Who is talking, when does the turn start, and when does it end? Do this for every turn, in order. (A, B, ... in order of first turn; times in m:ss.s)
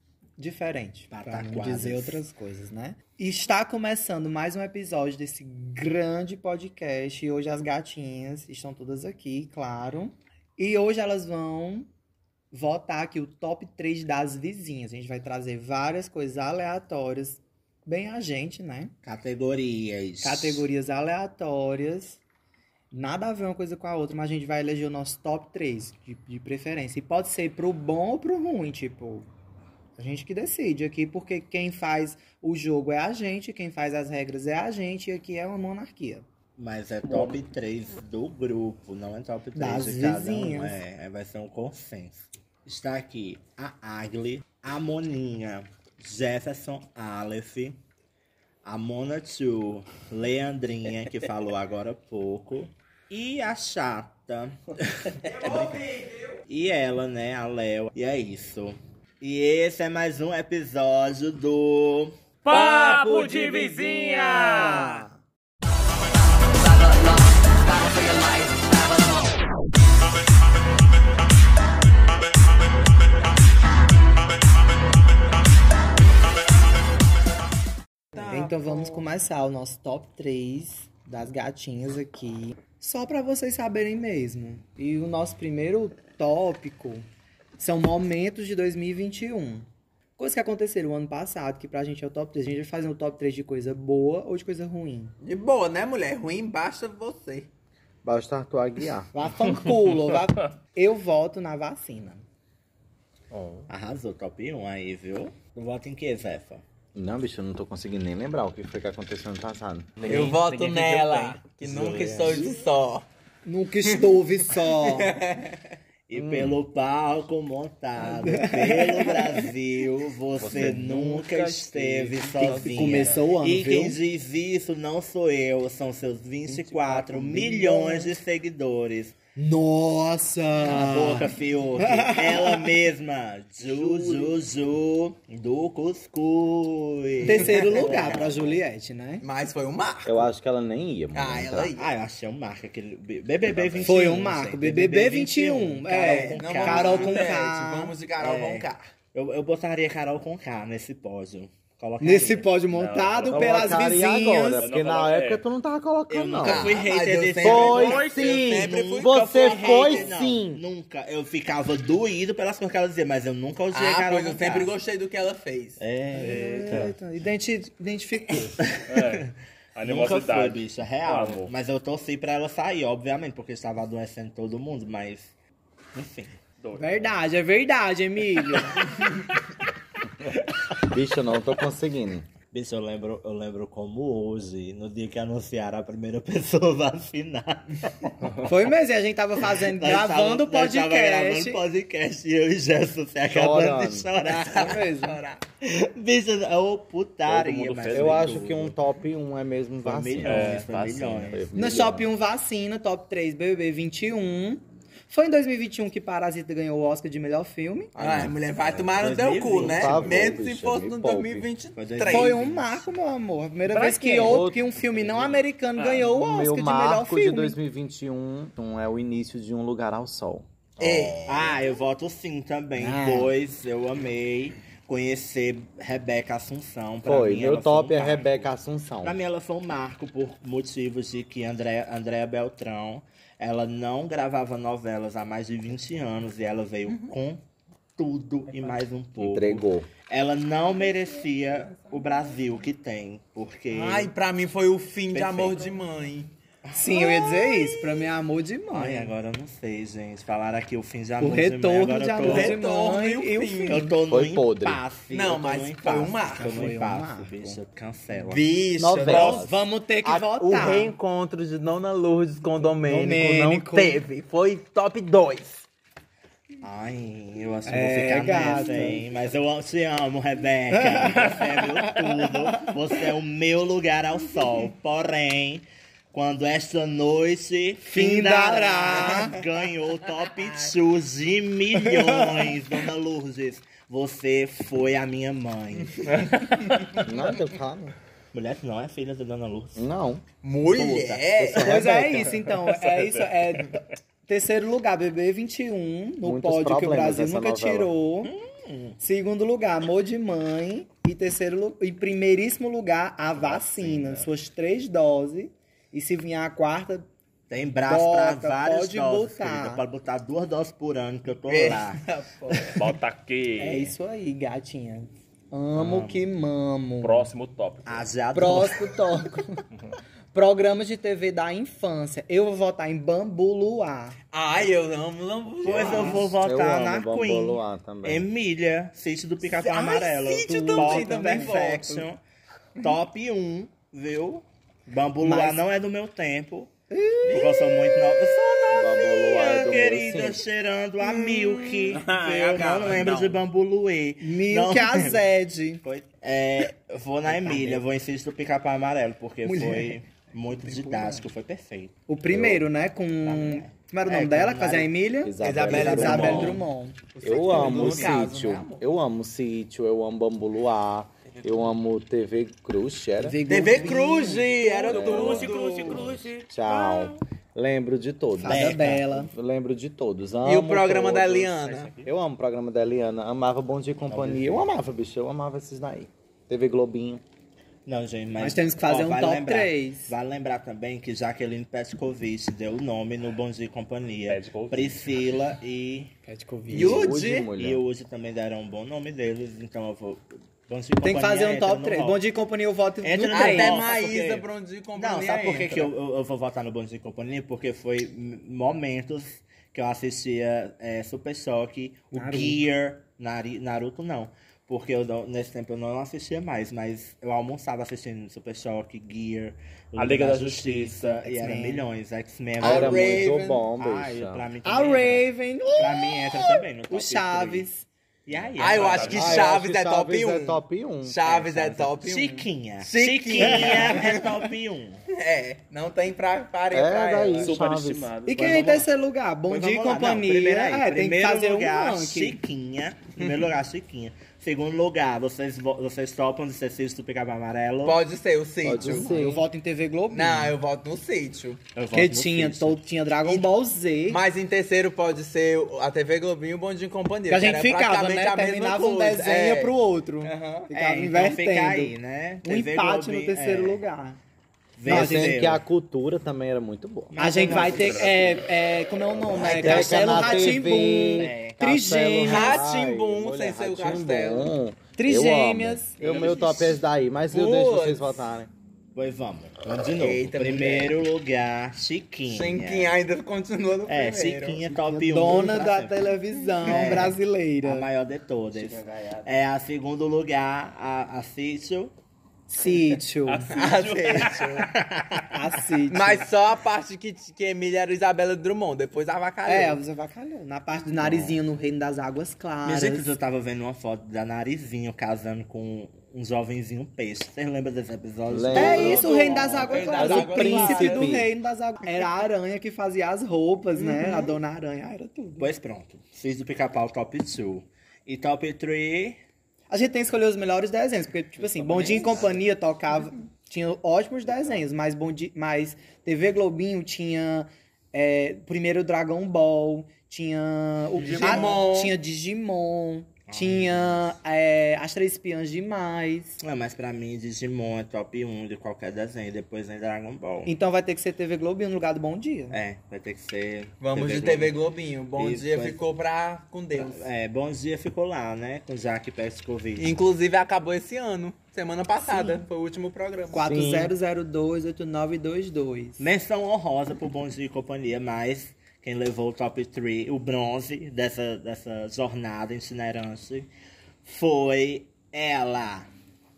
0:00.4-0:11.9 A
0:01.1-0:02.2 B
0:12.5-0:18.9 A
0:19.0-0:20.6 B
0:20.2-0:22.2 A
0:22.9-0:29.3 A
0:30.0-0:36.2 A
0:36.6-0:47.8 B
0:37.0-0:37.4 C
0:39.5-0:40.8 A
0:48.6-0:55.8 B
0:55.2-0:56.4 D
0:56.5-1:02.1 B
1:02.4-1:05.0 C
1:02.5-1:05.1 A
1:06.5-1:09.2 D
1:18.1-1:19.0 D
1:18.2-1:29.6 A
1:30.2-1:35.1 A
1:35.2-1:37.5 D
1:38.0-1:39.1 E
1:39.1-1:42.2 A
1:43.3-1:43.6 E
1:43.7-1:46.6 B
1:46.9-1:50.4 E
1:50.0-1:51.4 C
1:50.1-1:53.0 D
1:51.6-1:52.5 B
1:53.4-1:55.2 A
1:53.9-1:55.6 D
1:56.1-2:09.1 B
1:56.1-1:56.6 E
1:58.0-1:59.4 A
2:00.4-2:03.2 E
2:02.4-2:04.0 A
2:06.7-2:08.1 A
2:06.8-2:07.4 E
2:09.4-2:12.7 A
2:10.6-2:18.6 B
2:13.6-2:14.3 A
2:17.2-2:19.2 A
2:17.5-2:18.1 D
2:19.2-2:20.3 D
2:20.0-2:21.7 E
2:21.1-2:21.9 D
2:21.8-2:27.3 B
2:23.5-2:23.8 C
2:23.8-2:27.9 A
2:26.0-2:28.8 D
2:28.2-2:32.5 B
2:32.0-2:34.7 A
2:32.7-2:33.9 C
2:33.3-2:36.8 E
2:34.6-2:35.4 C
2:36.1-2:44.7 B
2:36.4-2:40.2 D
2:37.4-2:40.6 E
2:43.7-2:45.8 D
2:45.8-2:46.9 B
2:46.1-2:48.6 A
2:46.2-2:46.9 C
2:48.6-2:49.3 B
2:48.9-2:51.5 C
2:49.8-2:55.3 B
2:55.9-2:56.4 B
2:56.6-2:57.1 C
2:56.8-2:59.1 A
3:00.8-3:02.3 E
3:02.5-3:08.5 B
3:08.4-3:11.6 A
3:09.5-3:14.9 B
3:13.3-3:14.1 E
3:14.2-3:15.2 A
3:14.3-3:15.4 D
3:15.6-3:18.7 B
3:17.2-3:18.5 C
3:17.9-3:22.1 E
3:19.8-3:21.4 B
3:20.2-3:21.3 C
3:21.5-3:27.9 A
3:27.9-3:32.4 D
3:28.0-3:30.4 B
3:29.5-3:31.5 E
3:31.8-3:32.9 B
3:32.1-3:37.6 A
3:33.7-3:34.4 C
3:34.2-3:40.5 E
3:40.8-3:41.6 D
3:40.8-3:48.5 B
3:42.8-3:43.3 A
3:47.0-3:49.2 E
3:49.0-3:57.4 B
3:58.0-4:04.1 B
3:59.2-3:59.9 E
4:03.7-4:06.3 D
4:05.1-4:05.6 B
4:06.7-4:08.1 B
4:06.7-4:09.1 A
4:08.7-4:12.6 B
4:11.2-4:13.9 A
4:12.2-4:14.0 D
4:13.7-4:18.4 B
4:14.1-4:14.8 E
4:15.1-4:16.8 D
4:16.4-4:17.6 A
4:18.1-4:19.5 D
4:18.8-4:19.5 E
4:19.1-4:19.4 B
4:19.1-4:20.9 A
4:20.0-4:25.7 D
4:22.8-4:24.0 A
4:26.6-4:46.2 B
4:27.7-4:29.0 A
4:30.7-4:32.7 A
4:37.8-4:39.4 A
4:40.2-4:40.7 D
4:41.9-4:42.4 A
4:46.2-4:46.6 C
4:47.0-4:47.9 E
4:48.3-4:49.8 B
4:49.8-4:52.4 E
4:50.4-4:51.8 D
4:51.5-4:58.3 A
4:52.5-4:53.8 C
4:56.2-4:57.9 E
4:58.2-4:59.0 B
4:59.0-5:07.0 A
5:03.4-5:04.3 C
5:07.5-5:12.9 B
5:07.8-5:09.8 A
5:11.5-5:12.7 D
5:12.7-5:13.9 C
5:13.6-5:17.3 A
5:15.8-5:16.2 B
5:17.0-5:18.1 C
5:17.8-5:19.0 B
5:18.3-5:19.6 A
5:20.3-5:24.2 A
5:24.3-5:26.2 D
5:25.6-5:32.2 B
5:25.9-5:28.3 E
5:29.4-5:32.1 D
5:30.3-5:31.7 A
5:32.8-5:36.7 B
5:35.2-5:35.6 A
5:36.9-5:38.4 A
5:37.2-5:45.2 B
5:38.7-5:40.4 E
5:41.0-5:43.4 D
5:44.2-5:45.8 A
5:45.8-5:52.4 B
5:49.4-5:50.0 A
5:50.6-5:51.2 A
5:52.1-5:58.1 A
5:52.3-5:52.6 E
5:53.2-5:54.9 B
5:55.2-5:56.6 E
5:55.4-5:58.8 D
5:55.7-5:56.6 B
5:57.2-6:03.4 E
6:03.2-6:04.9 A
6:03.5-6:06.1 D
6:04.8-6:06.7 C
6:04.9-6:07.1 B
6:05.0-6:05.5 E
6:06.4-6:17.2 E
6:08.4-6:09.3 A
6:08.4-6:09.0 B
6:10.4-6:11.9 D
6:11.6-6:12.1 B
6:14.1-6:14.7 B
6:17.8-6:26.1 B
6:18.4-6:20.1 A
6:24.2-6:25.1 C
6:26.3-6:26.8 A
6:26.6-6:27.5 D
6:26.7-6:27.8 E
6:26.7-6:32.2 B
6:31.0-6:33.8 A
6:33.0-6:57.7 B
6:33.3-6:35.9 D
6:42.1-6:42.6 A
6:50.0-6:51.2 C
6:51.2-6:51.8 A
6:52.6-6:53.6 D
6:52.6-6:54.5 E
6:54.6-6:57.8 A
6:58.2-6:59.5 B
6:58.6-7:04.4 D
6:58.6-6:59.4 C
6:59.1-7:01.9 E
7:02.0-7:05.0 B
7:03.4-7:04.0 A
7:05.1-7:07.6 D
7:06.7-7:08.1 E
7:07.4-7:08.7 C
7:08.2-7:12.4 A
7:08.3-7:08.9 B
7:09.5-7:18.0 B
7:17.8-7:19.1 D
7:18.6-7:19.4 E
7:18.9-7:20.6 A
7:20.1-7:21.6 D
7:21.7-7:22.8 B
7:21.9-7:24.2 A
7:23.2-7:23.5 D
7:24.1-7:30.7 D
7:27.3-7:34.2 A
7:30.7-7:33.8 B
7:34.8-7:35.6 B
7:34.8-7:37.2 E
7:34.8-7:35.4 A
7:37.1-7:38.2 B
7:37.2-7:42.6 A
7:37.6-7:38.3 C
7:39.2-7:40.6 B
7:39.3-7:48.5 E
7:41.2-7:41.6 B
7:42.2-7:44.6 D
7:45.0-7:46.5 A
7:46.0-7:46.5 D
7:47.3-7:48.2 D
7:48.9-7:52.9 B
7:49.9-7:51.0 D
7:52.3-7:54.6 D
7:53.9-7:56.1 B
7:55.0-7:57.9 A
7:56.6-8:01.9 B
8:02.5-8:03.6 A
8:03.3-8:04.6 C
8:03.5-8:04.7 D
8:04.7-8:05.4 B
8:05.3-8:06.3 A
8:05.9-8:09.8 D
8:09.4-8:13.1 A
8:11.0-8:11.4 B
8:12.6-8:20.0 B
8:18.3-8:19.3 E
8:18.5-8:25.5 A
8:18.5-8:21.1 D
8:19.9-8:21.3 E
8:23.8-8:24.2 D
8:25.4-8:29.2 B
8:29.7-8:46.4 A
8:31.4-8:32.4 C
8:31.8-8:32.3 B
8:41.0-8:41.6 B
8:41.0-8:42.0 D
8:43.3-8:44.2 B
8:46.4-8:50.5 B
8:50.4-8:52.6 A
8:52.5-8:54.6 B
8:53.8-8:57.1 D
8:55.2-8:55.8 B
8:56.7-8:59.9 B
8:59.8-9:03.4 D
9:03.3-9:06.0 A
9:03.4-9:03.9 E
9:06.0-9:13.5 B
9:14.0-9:15.9 B